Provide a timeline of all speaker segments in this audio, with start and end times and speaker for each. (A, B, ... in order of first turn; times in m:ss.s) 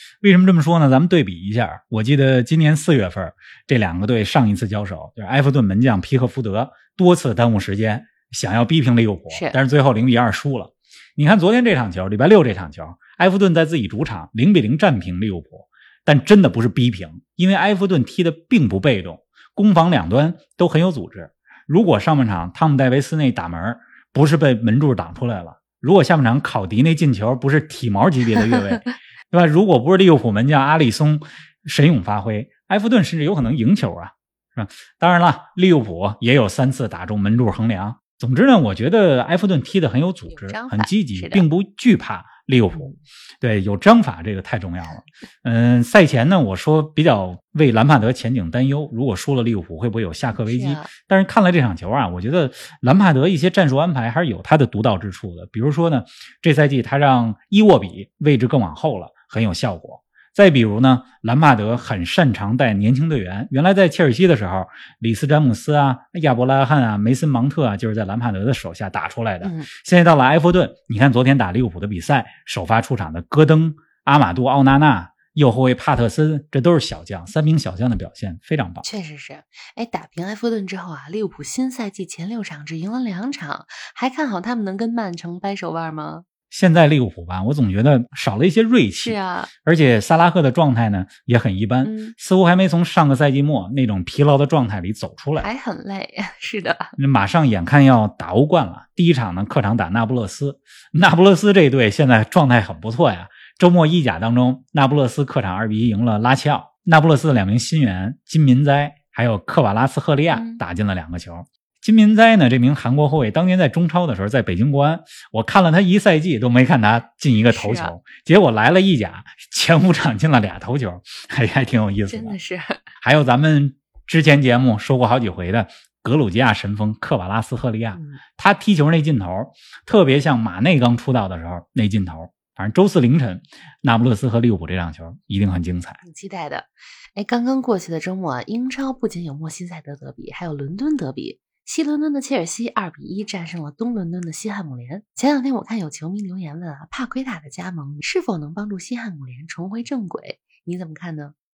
0:00.2-1:18.8 A
0:09.3-0:09.6 B
0:40.3-0:41.5 B
0:42.7-0:43.0 B
0:50.4-0:50.9 B
1:09.4-1:09.7 B
1:18.8-1:26.2 B
1:26.5-1:35.5 A
1:29.0-1:29.5 B
1:31.8-1:32.1 B
1:35.4-1:37.0 B
1:37.0-2:02.4 A
1:50.3-1:50.6 B
1:57.5-1:58.0 B
2:02.1-2:02.8 B
2:03.0-2:16.0 A
2:07.9-2:08.2 B
2:16.0-2:31.3 B